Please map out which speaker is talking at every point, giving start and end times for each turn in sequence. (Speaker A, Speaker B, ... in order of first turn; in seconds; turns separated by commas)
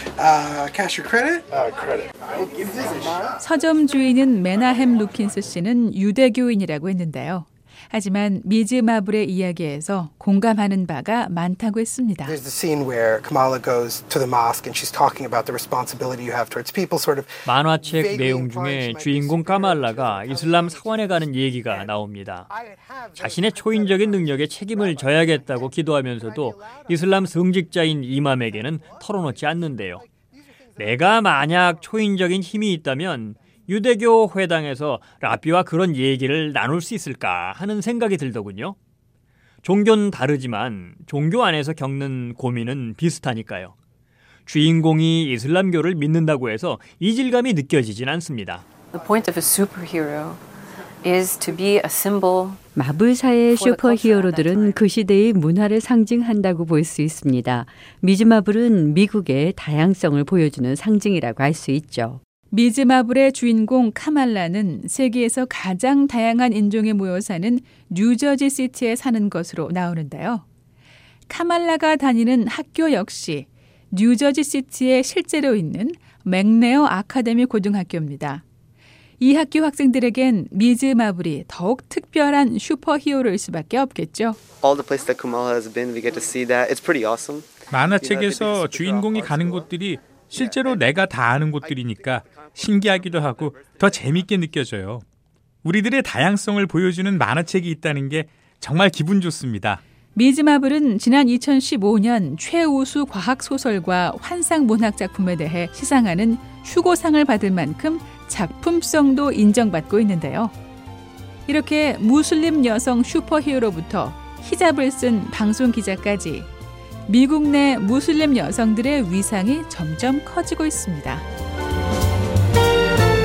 Speaker A: 0.2-3.3, Speaker B: 3.4-12.3, Speaker A: 12.2-21.0, Speaker C: 17.4-22.5, Speaker C: 23.2-30.0, Speaker C: 30.8-38.8, Speaker C: 39.6-43.7, Speaker C: 44.5-48.6, Speaker D: 48.9-50.4, Speaker D: 51.0-52.6, Speaker E: 52.7-62.2, Speaker D: 53.5-54.8, Speaker B: 62.5-70.4, Speaker B: 71.3-78.4, Speaker B: 79.2-84.4, Speaker F: 84.6-89.7, Speaker G: 87.7-95.0, Speaker F: 90.5-90.7, Speaker G: 95.6-99.8, Speaker B: 100.1-110.5, Speaker B: 111.5-116.5, Speaker B: 117.1-121.2